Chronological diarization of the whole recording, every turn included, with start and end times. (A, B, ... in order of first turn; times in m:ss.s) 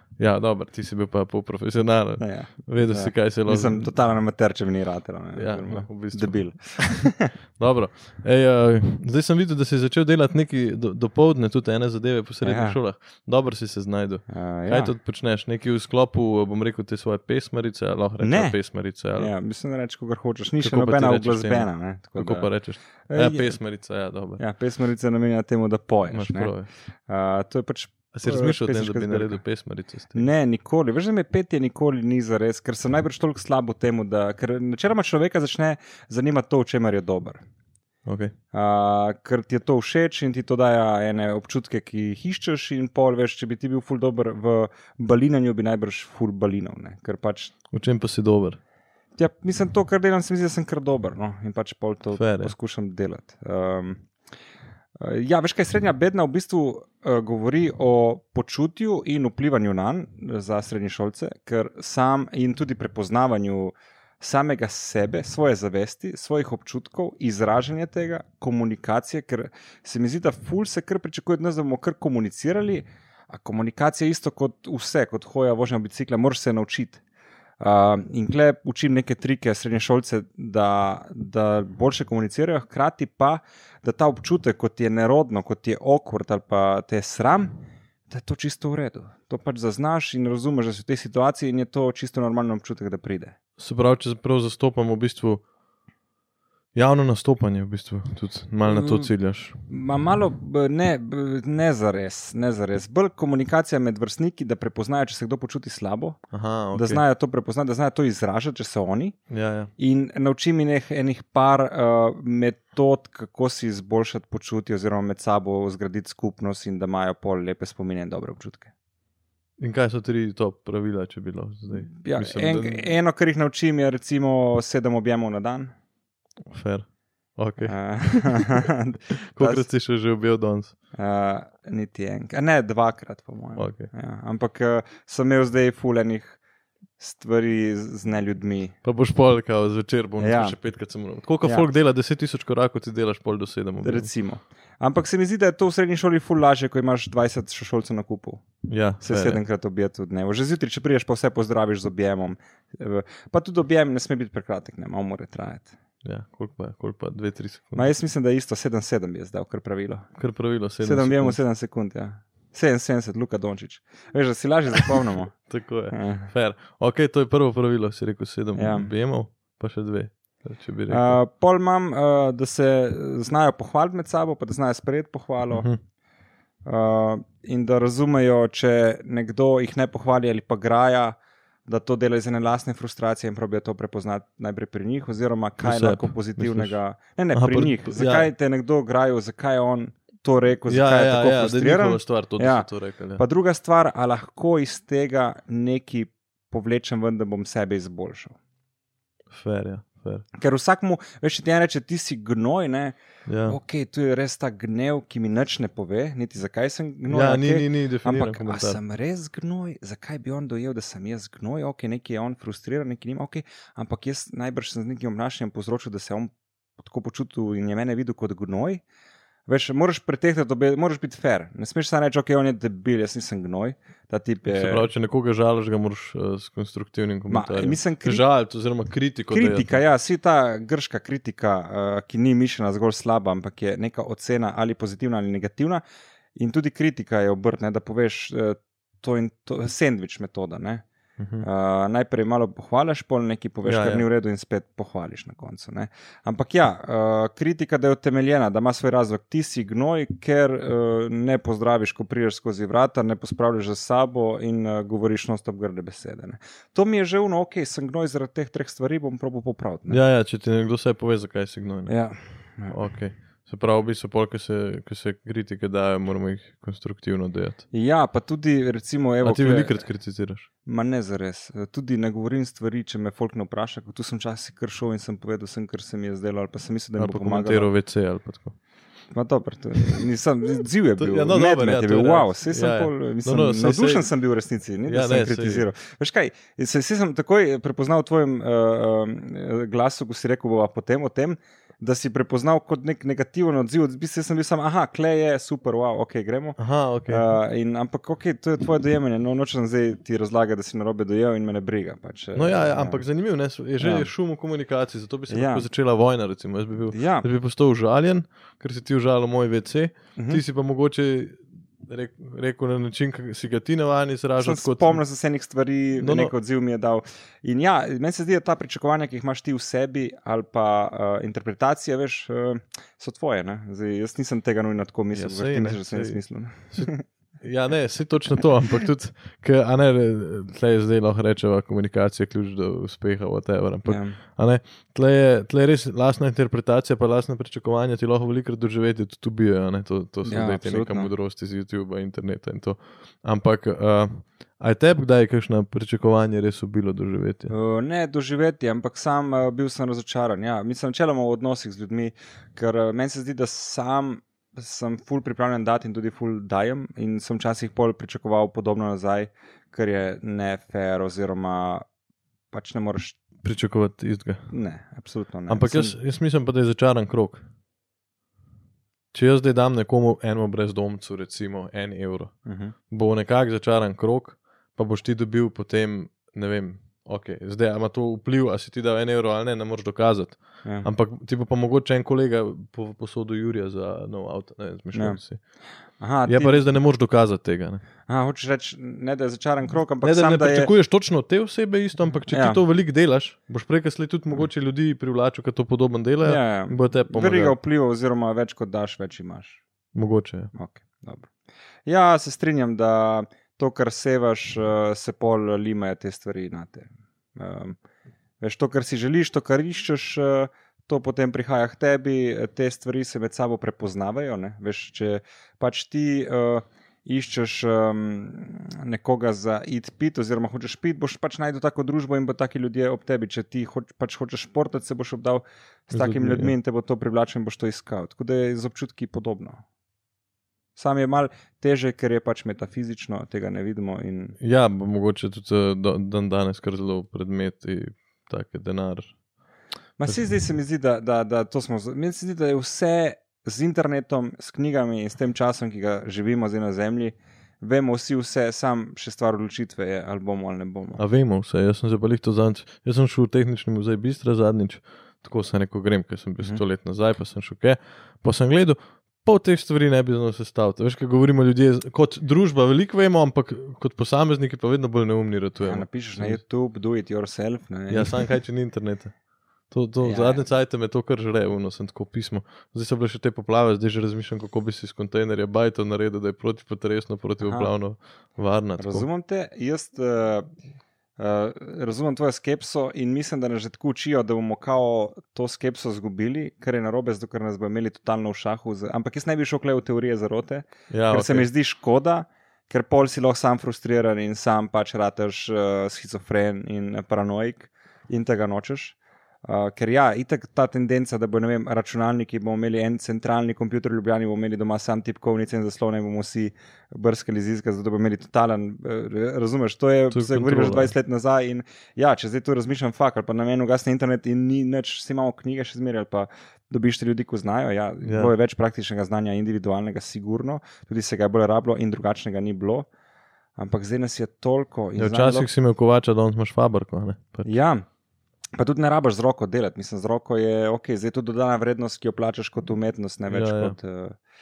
0:00.2-0:03.9 A
0:02.2-0:07.3 B
0:05.3-0:06.6 A
0:07.6-0:19.3 A
0:12.4-0:12.8 B
0:14.3-0:14.9 B
0:18.2-0:18.6 B
0:19.1-0:23.6 B
0:20.6-0:24.4 A
0:24.4-0:29.4 B
0:26.1-0:26.7 A
0:28.1-0:30.2 A
0:30.1-0:37.4 B
0:38.0-0:38.3 A
0:38.5-0:47.5 B
0:47.7-0:48.6 A
0:49.2-0:54.1 B
0:52.2-0:52.5 A
0:55.0-1:17.0 B
1:17.6-1:27.6 B
1:28.1-1:33.3 B
1:33.6-1:35.4 A
1:36.7-1:39.6 A
1:38.6-1:39.1 B
1:39.7-1:49.2 B
1:46.3-1:47.0 A
1:49.3-1:49.7 A
1:49.8-1:58.7 B
1:59.6-2:03.0 A
2:01.8-2:05.7 B
2:06.5-2:08.6 A
2:07.6-2:09.7 B
2:09.3-2:10.8 A
2:10.9-2:16.4 B
2:13.6-2:13.9 A
2:17.0-2:18.8 B
2:18.8-2:24.1 A
2:20.2-2:20.6 B
2:21.4-2:21.7 B
2:23.8-2:28.4 B
2:28.6-2:29.4 A
2:29.0-2:35.7 B
2:36.0-2:37.9 A
2:37.8-2:40.1 B
2:40.2-2:41.4 A
2:40.8-2:45.4 B
2:45.4-2:51.2 A
2:45.9-2:46.3 B
2:48.5-2:48.9 B
2:50.9-2:55.7 B
2:55.5-2:55.8 A
2:56.6-3:18.4 B
3:05.6-3:06.8 A
3:07.3-3:08.3 A
3:10.7-3:13.2 A
3:19.3-3:20.2 A
3:20.4-3:38.8 B
3:23.2-3:23.6 A
3:27.1-3:28.8 A
3:39.5-3:44.9 B
3:44.5-3:49.8 A
3:47.3-3:48.2 B
3:49.3-3:55.8 B
3:56.4-4:00.8 B
4:01.2-4:01.4 A
4:01.4-4:20.0 B
4:03.6-4:04.1 A
4:19.9-4:22.1 A
4:21.9-4:22.8 B
4:22.7-4:27.7 A
4:27.7-4:29.9 B
4:29.2-4:30.5 A
4:30.6-4:37.7 B
4:37.0-4:38.6 A
4:39.1-5:03.0 B
4:41.0-4:44.1 A
4:44.9-4:45.7 A
4:56.6-4:57.2 A
5:02.4-5:15.0 A
5:03.8-5:04.1 B
5:05.3-5:05.6 B
5:06.9-5:07.3 B
5:10.2-5:10.4 B
5:14.4-5:27.0 B
5:16.0-5:16.3 A
5:25.1-5:47.5 A
5:33.8-5:34.2 B
5:40.2-5:41.1 B
5:47.5-6:01.8 B
6:02.5-6:03.2 B
6:03.4-6:04.5 A
6:04.5-6:06.0 B
6:05.5-6:07.4 A
6:09.1-6:12.4 A
6:12.4-6:12.7 B
6:12.9-6:25.4 A
6:20.6-6:20.9 B
6:24.9-6:25.2 B
6:26.0-6:26.7 B
6:26.2-6:27.8 A
6:28.1-6:30.7 B
6:30.0-6:37.6 A
6:32.3-6:32.6 B
6:36.2-6:39.6 B
6:39.9-6:40.5 A
6:40.5-6:41.3 B
6:41.8-6:47.8 B
6:48.4-7:09.6 B
7:05.9-7:06.5 A
7:10.8-7:14.4 B
7:14.4-7:19.2 A
7:20.0-7:31.0 B
7:31.0-7:46.4 A
7:45.6-7:48.2 B
7:47.9-7:49.1 A
7:49.7-7:59.1 A
7:50.0-7:50.4 B
7:57.4-7:57.7 B
7:58.8-8:00.5 B
8:01.2-8:42.9 B
8:10.9-8:11.5 A
8:30.1-8:30.9 A
8:38.0-8:38.3 A
8:43.6-8:45.5 B
8:45.0-8:47.5 A
8:47.4-8:47.8 B
8:48.5-8:54.2 B
8:53.3-8:53.8 A